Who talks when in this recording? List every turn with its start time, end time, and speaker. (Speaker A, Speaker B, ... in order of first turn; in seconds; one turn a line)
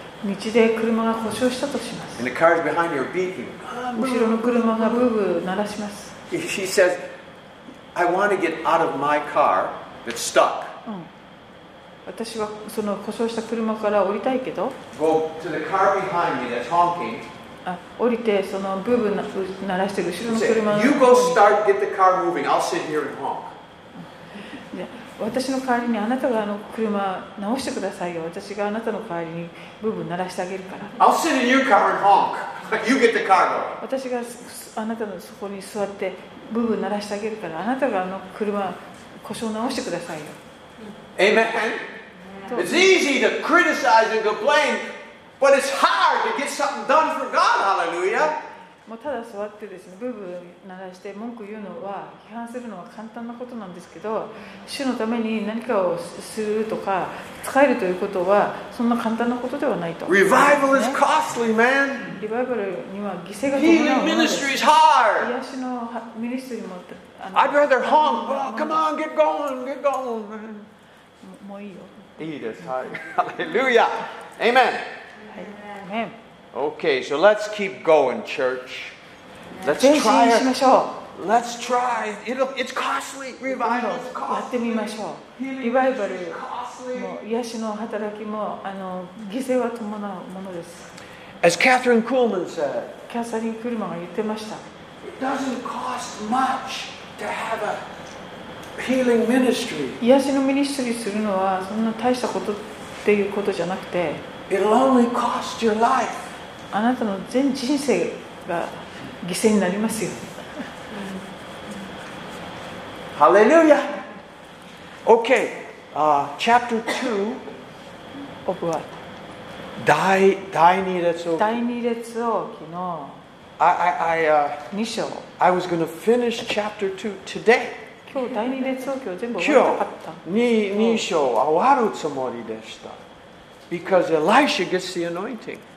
Speaker A: 0.2-2.2
Speaker B: 2.2-5.0
Speaker A: 3.9-6.2
Speaker B: 6.3-7.0
Speaker B: 7.9-10.7
Speaker A: 10.8-11.1
Speaker A: 12.1-14.8
Speaker B: 14.9-17.3
Speaker A: 17.6-21.5
Speaker B: 20.3-23.5
Speaker A: 24.7-31.0
Speaker B: 31.0-33.8
Speaker A: 33.8-40.4
Speaker B: 41.1-41.8
Speaker A: 42.5-42.9
Speaker B: 42.5-44.9
Speaker B: 45.4-48.4
Speaker A: 48.9-61.0
Speaker B: 60.1-62.1
Speaker A: 62.1-64.5
Speaker B: 63.5-65.3
Speaker A: 65.2-68.8
Speaker B: 67.3-70.7
Speaker A: 71.2-72.1
Speaker B: 72.2-74.9
Speaker A: 75.3-76.2
Speaker B: 76.5-79.0
Speaker B: 79.6-80.5
Speaker A: 79.7-81.0
Speaker B: 81.1-87.2
Speaker A: 83.5-86.4
Speaker A: 86.9-90.9
Speaker B: 91.4-93.0
Speaker A: 93.1-94.6
Speaker B: 95.0-97.8
Speaker B: 98.8-100.0
Speaker A: 100.0-104.2
Speaker B: 104.5-106.3
Speaker A: 106.7-110.7
Speaker B: 113.1-114.0
Speaker B: 115.0-117.4
Speaker A: 118.4-119.0
Speaker B: 119.8-121.6
Speaker A: 121.4-123.2
Speaker B: 123.6-124.7
Speaker A: 124.7-125.3
Speaker B: 125.4-127.8
Speaker A: 128.1-131.1
Speaker B: 129.4-133.0
Speaker B: 133.7-135.6